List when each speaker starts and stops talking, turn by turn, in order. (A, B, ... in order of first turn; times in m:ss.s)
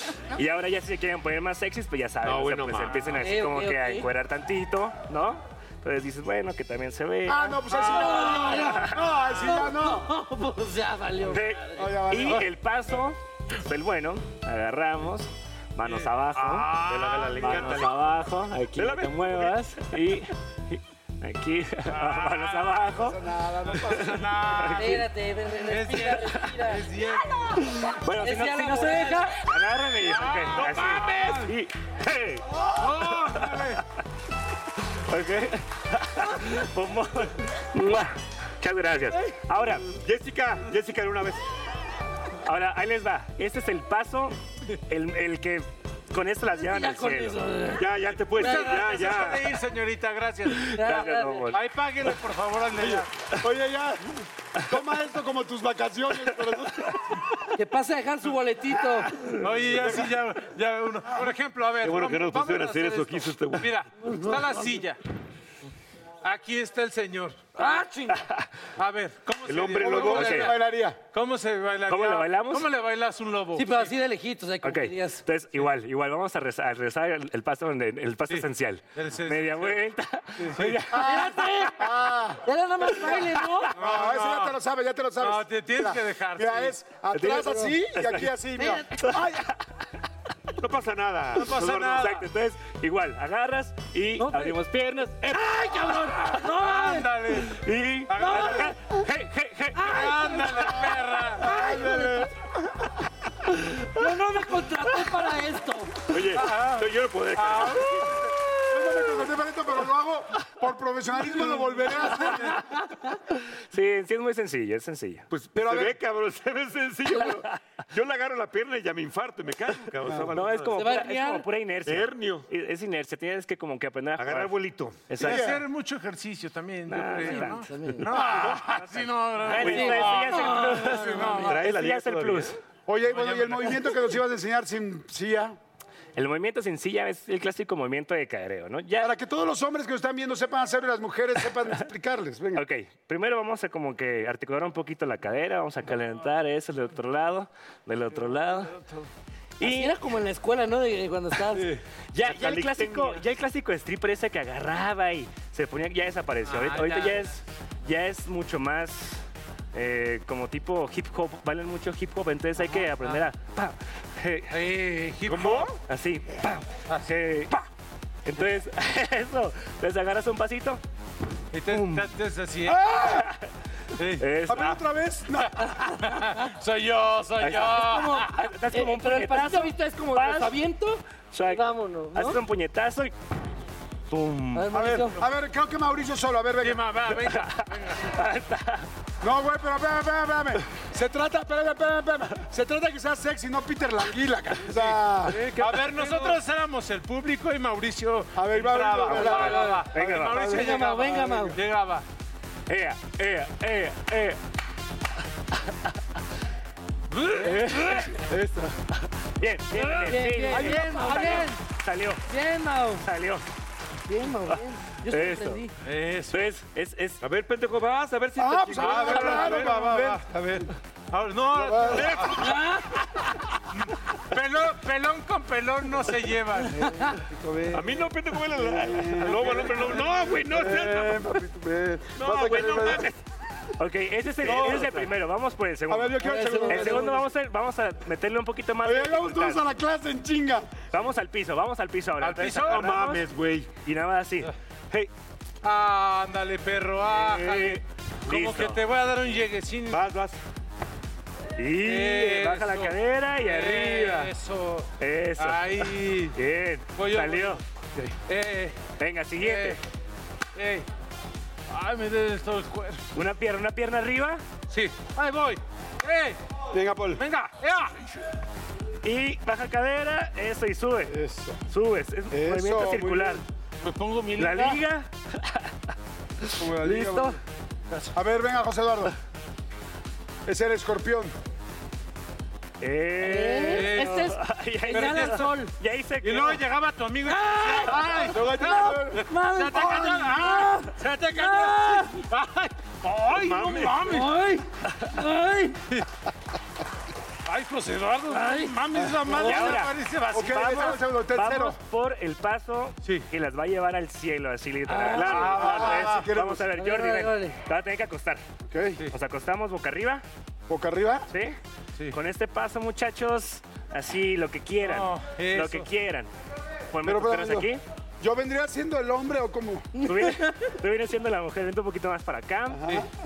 0:00.3-0:07.9 A
0:02.2-0:03.2 B
0:03.2-0:04.1 C
0:07.2-0:10.1 D
0:07.7-0:08.6 E
0:07.8-0:11.9 C
0:08.7-0:08.9 A
0:11.3-0:16.8 A
0:11.7-0:12.5 D
0:15.8-0:17.8 E
0:16.7-0:18.2 B
0:17.4-0:23.2 A
0:18.8-0:19.8 B
0:21.9-0:22.9 E
0:22.9-0:24.2 D
0:23.8-0:25.1 E
0:24.6-0:24.9 A
0:24.8-0:26.9 C
0:25.6-0:27.6 E
0:27.6-0:32.4 A
0:28.2-0:29.4 C
0:30.0-0:31.5 E
0:30.6-0:31.3 B
0:32.7-0:33.8 E
0:33.1-0:33.7 A
0:35.0-0:39.8 A
0:39.9-0:41.4 B
0:42.4-0:44.4 A
0:44.9-0:47.4 A
0:46.5-0:47.9 C
0:47.7-0:49.5 B
0:48.3-0:53.1 E
0:50.6-0:51.5 C
0:50.7-0:51.6 A
0:53.3-0:57.2 D
0:57.6-0:59.2 C
0:59.4-1:05.0 E
1:01.8-1:03.7 B
1:04.0-1:04.7 C
1:06.2-1:07.8 E
1:07.6-1:08.2 C
1:08.2-1:08.4 A
1:08.8-1:10.6 E
1:09.4-1:10.5 B
1:09.8-1:11.0 D
1:11.1-1:14.0 E
1:11.9-1:12.7 A
1:13.5-1:15.2 C
1:14.6-1:21.6 A
1:18.3-1:19.8 E
1:20.4-1:20.8 E
1:20.9-1:22.4 D
1:20.9-1:21.8 C
1:22.4-1:23.8 C
1:23.7-1:24.6 E
1:23.7-1:29.5 D
1:25.2-1:26.8 E
1:27.1-1:28.3 A
1:29.0-1:29.3 A
1:30.6-1:32.1 B
1:31.3-1:32.2 E
1:32.0-1:36.2 A
1:34.2-1:34.6 C
1:35.3-1:37.6 E
1:35.4-1:37.1 C
1:37.5-1:40.0 A
1:38.1-1:38.7 E
1:38.1-1:38.7 C
1:39.7-1:40.4 C
1:39.8-1:41.6 E
1:41.4-1:42.2 D
1:41.4-1:42.2 C
1:43.8-1:46.0 C
1:46.1-1:48.1 B
1:46.3-1:48.3 E
1:48.7-1:52.6 D
1:51.4-1:52.2 E
1:52.5-1:52.8 C
1:53.7-1:55.2 A
1:55.3-2:00.9 B
1:55.5-1:56.0 D
2:00.3-2:04.5 A
2:00.7-2:01.5 C
2:01.8-2:02.5 B
2:04.2-2:05.2 B
2:05.1-2:05.4 A
2:05.2-2:05.6 D
2:05.2-2:11.7 E
2:06.9-2:07.6 A
2:07.5-2:08.4 C
2:08.3-2:12.6 A
2:09.5-2:11.2 C
2:09.6-2:10.3 B
2:11.3-2:12.6 B
2:12.9-2:15.6 D
2:13.0-2:13.9 E
2:16.2-2:19.1 A
2:19.0-2:22.6 D
2:22.5-2:28.7 A
2:28.1-2:29.0 E
2:29.6-2:30.0 A
2:29.6-2:31.7 C
2:32.1-2:33.2 B
2:32.1-2:44.5 A
2:36.4-2:37.3 E
2:42.6-2:43.2 E
2:44.5-2:45.8 E
2:45.2-2:45.7 B
2:45.9-2:47.6 A
2:48.2-2:50.8 A
2:51.5-2:53.2 E
2:51.7-2:52.1 A
2:52.6-2:53.3 D
2:53.1-2:53.5 A
2:54.0-2:54.8 E
2:54.2-2:54.7 A
2:54.5-2:55.6 D
2:55.4-2:58.3 E
2:57.4-3:00.6 A
2:57.7-3:02.4 C
3:01.3-3:03.1 A
3:04.1-3:04.7 A
3:04.5-3:05.2 C
3:04.7-3:06.9 D
3:06.6-3:08.1 E
3:07.3-3:08.9 A
3:09.2-3:15.5 D
3:14.7-3:22.0 E
3:15.4-3:16.4 A
3:18.3-3:21.4 D
3:19.1-3:20.6 A
3:19.3-3:19.8 C
3:20.5-3:21.6 C
3:22.7-3:24.4 A
3:27.1-3:28.2 E
3:27.4-3:28.4 A
3:28.9-3:32.2 A
3:29.7-3:31.6 C
3:30.5-3:31.5 E
3:32.3-3:33.0 C
3:33.0-3:33.4 A
3:34.1-3:35.7 C
3:35.1-3:35.6 A
3:35.8-3:36.5 E
3:36.3-3:37.2 A
3:37.2-3:39.4 B
3:38.4-3:40.7 D
3:38.8-3:40.3 E
3:41.1-3:42.6 E
3:41.5-3:42.2 D
3:42.3-3:42.8 C
3:43.7-3:47.7 E
3:46.8-3:47.8 D
3:47.7-3:51.2 B
3:48.5-3:53.1 D
3:49.2-3:50.4 E
3:52.2-3:53.2 B
3:53.8-3:59.6 A
3:54.4-3:55.0 D
3:54.4-3:55.1 B
3:55.9-3:57.2 D
3:56.2-3:57.2 C
3:58.8-4:00.7 D
4:00.9-4:03.2 A
4:02.2-4:03.0 E
4:02.6-4:03.7 B
4:03.8-4:05.1 A
4:05.6-4:10.0 E
4:07.1-4:08.8 A
4:09.9-4:10.4 B
4:11.6-4:14.3 A
4:11.8-4:19.8 E
4:15.0-4:17.6 A
4:19.0-4:19.8 A
4:20.5-4:20.8 E
4:21.7-4:23.1 E
4:23.1-4:24.4 A
4:24.7-4:26.4 E
4:26.7-4:27.2 D
4:27.2-4:27.9 E
4:29.0-4:31.2 A
4:31.1-4:31.6 D
4:31.7-4:33.4 A
4:32.3-4:33.4 D
4:33.8-4:34.8 E
4:34.4-4:35.7 A
4:36.6-4:37.4 D
4:36.9-4:37.3 C
4:38.1-4:39.1 D
4:40.4-4:41.3 D
4:42.8-4:46.6 A
4:43.2-4:45.7 C
4:43.6-4:44.3 E
4:44.9-4:45.5 E
4:46.2-4:54.4 E
4:47.3-4:52.2 C
4:48.0-4:49.2 D
4:53.3-4:54.0 B
4:54.0-4:55.8 C
4:57.5-5:01.0 E
4:58.3-4:59.8 C
4:59.4-5:08.4 A
5:00.3-5:01.8 D
5:03.0-5:03.3 E
5:04.9-5:05.4 C
5:05.0-5:06.3 E
5:05.2-5:06.7 D
5:06.7-5:07.6 C
5:08.7-5:09.1 D
5:09.1-5:10.2 A
5:10.7-5:11.3 D
5:11.3-5:11.6 A
5:12.1-5:16.3 A
5:14.8-5:15.9 E
5:16.9-5:17.8 A
5:17.0-5:17.7 D
5:18.2-5:19.9 D
5:20.0-5:20.7 C
5:20.0-5:22.8 A
5:22.7-5:23.1 D